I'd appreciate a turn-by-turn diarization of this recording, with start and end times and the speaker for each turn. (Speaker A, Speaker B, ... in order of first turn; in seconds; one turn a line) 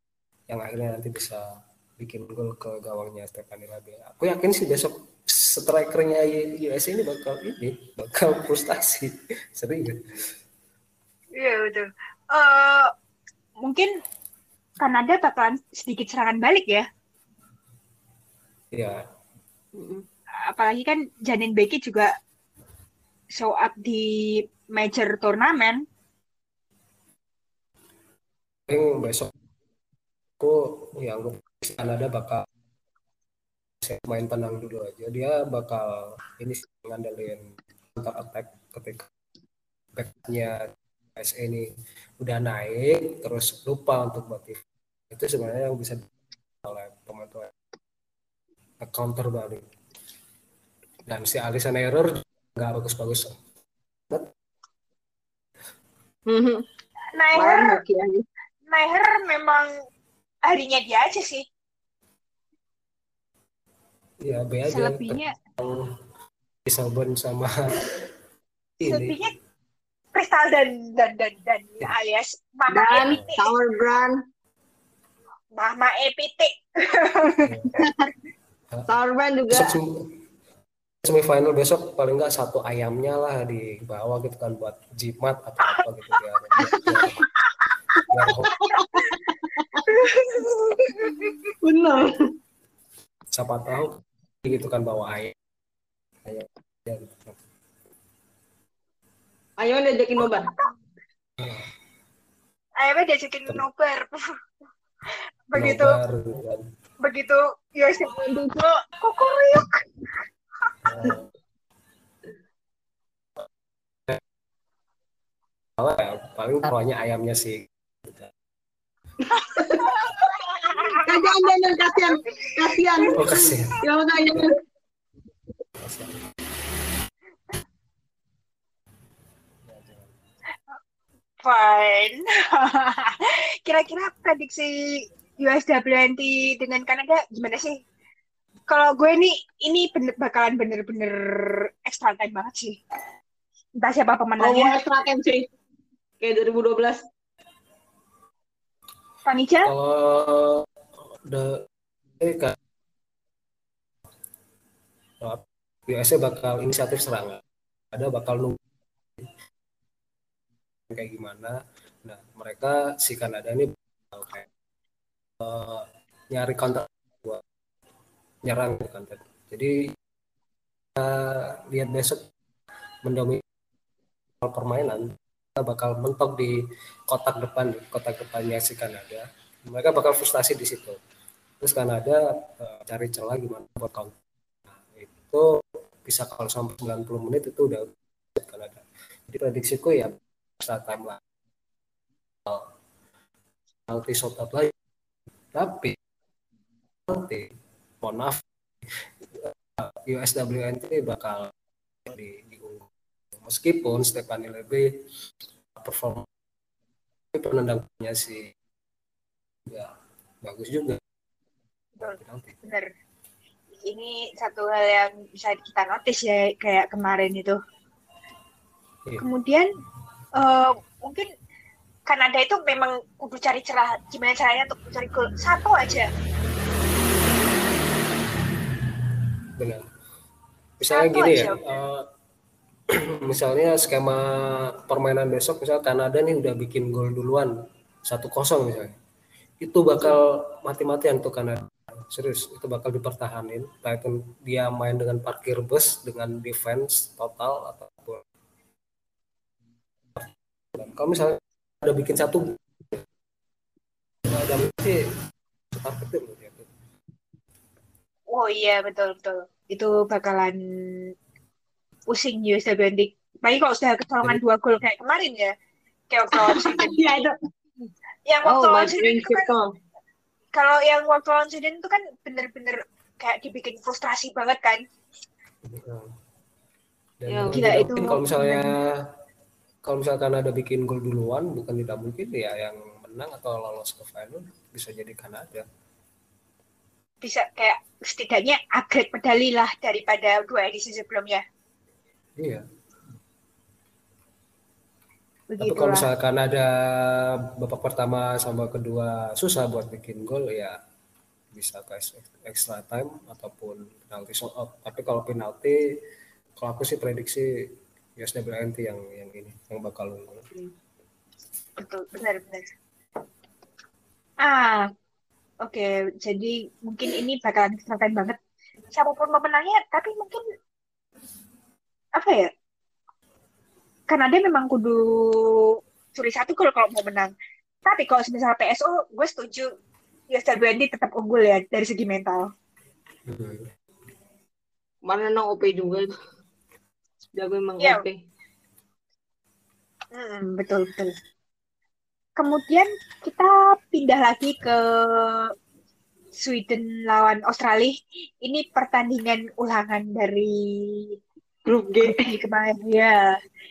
Speaker A: 0.5-10.0
Speaker B: 11.4-12.9
Speaker B: 13.6-13.9
Speaker B: 14.8-16.9
Speaker A: 18.7-19.0
Speaker C: 19.7-20.0
Speaker B: 20.4-22.1
Speaker B: 23.3-25.8
Speaker A: 28.7-29.3
Speaker A: 30.4-32.5
Speaker A: 33.8-39.1
Speaker A: 39.9-44.6
Speaker A: 45.1-46.0
Speaker A: 46.6-47.5
Speaker A: 48.8-49.6
Speaker A: 51.0-53.4
Speaker C: 56.3-56.6
Speaker B: 57.1-57.8
Speaker C: 57.3-58.2
Speaker B: 58.7-59.7
Speaker B: 60.4-61.5
Speaker A: 64.2-66.0
Speaker B: 64.7-65.3
Speaker A: 66.7-68.0
Speaker A: 68.8-69.2
Speaker B: 68.8-69.3
Speaker B: 70.1-73.5
Speaker C: 72.7-74.1
Speaker A: 73.0-73.3
Speaker B: 75.5-77.5
Speaker A: 77.4-77.9
Speaker C: 78.9-79.8
Speaker A: 79.5-80.0
Speaker A: 81.0-87.2
Speaker C: 86.6-87.1
Speaker A: 88.1-88.5
Speaker C: 88.1-89.9
Speaker B: 89.9-91.3
Speaker C: 91.1-92.1
Speaker A: 93.3-95.3
Speaker A: 96.2-97.3
Speaker C: 99.6-100.5
Speaker B: 100.3-100.7
Speaker A: 101.4-101.7
Speaker B: 102.8-104.2
Speaker B: 105.5-106.0
Speaker A: 105.5-106.6
Speaker B: 107.0-108.2
Speaker C: 108.1-108.8
Speaker B: 108.9-109.8
Speaker A: 110.8-111.3
Speaker A: 115.8-118.3
Speaker B: 119.5-121.2
Speaker C: 119.5-120.1
Speaker C: 120.9-124.6
Speaker B: 122.3-123.4
Speaker A: 123.1-123.8
Speaker A: 125.8-126.2
Speaker A: 129.7-130.1
Speaker B: 131.4-137.8
Speaker B: 138.7-142.8
Speaker B: 143.8-144.8
Speaker C: 144.4-145.5
Speaker C: 146.2-147.0
Speaker B: 149.2-149.7
Speaker A: 149.7-150.7
Speaker A: 151.2-151.7
Speaker A: 152.2-152.6
Speaker A: 155.2-158.6
Speaker A: 160.9-164.5
Speaker A: 165.4-167.4
Speaker A: 168.4-169.9
Speaker A: 170.9-172.3
Speaker A: 173.0-173.4
Speaker A: 174.4-181.0
Speaker A: 181.6-184.1
Speaker A: 184.8-185.5
Speaker A: 186.0-191.2
Speaker A: 193.9-194.7
Speaker A: 195.5-195.9
Speaker A: 197.1-198.4
Speaker A: 199.3-201.5
Speaker A: 202.0-204.9
Speaker A: 205.8-206.3
Speaker A: 207.3-208.5
Speaker A: 209.7-211.0
Speaker B: 212.0-212.9
Speaker A: 212.0-212.6
Speaker B: 213.8-217.6
Speaker B: 219.2-219.7
Speaker B: 220.3-221.3
Speaker B: 222.1-226.1
Speaker A: 229.6-229.8
Speaker A: 230.8-232.1
Speaker B: 230.9-231.8
Speaker A: 232.9-238.9
Speaker A: 239.6-248.2
Speaker A: 250.1-253.0
Speaker A: 254.2-255.1
Speaker A: 255.7-256.7
Speaker B: 258.3-261.1
Speaker B: 262.1-265.5
Speaker B: 266.1-267.0
Speaker C: 266.4-267.3
Speaker B: 268.2-269.5
Speaker C: 268.4-269.6
Speaker B: 270.5-274.8
Speaker A: 275.6-276.1
Speaker A: 277.2-278.9
Speaker C: 277.3-277.9
Speaker B: 277.5-278.6
Speaker A: 279.8-285.6
Speaker B: 287.2-291.4
Speaker A: 292.4-292.6
Speaker B: 295.5-296.1
Speaker A: 295.6-300.8
Speaker A: 301.5-305.8
Speaker A: 306.6-307.5
Speaker A: 308.1-310.5
Speaker B: 311.8-312.7
Speaker B: 314.4-314.9
Speaker B: 315.6-318.4
Speaker B: 318.9-320.4
Speaker B: 322.1-322.5
Speaker B: 324.1-327.3
Speaker B: 327.8-329.7
Speaker B: 330.3-332.5
Speaker A: 333.2-333.7
Speaker C: 335.0-336.1
Speaker C: 337.3-338.2
Speaker B: 340.1-341.1
Speaker B: 342.4-345.5
Speaker B: 346.4-351.1
Speaker C: 351.6-352.3
Speaker B: 352.1-353.4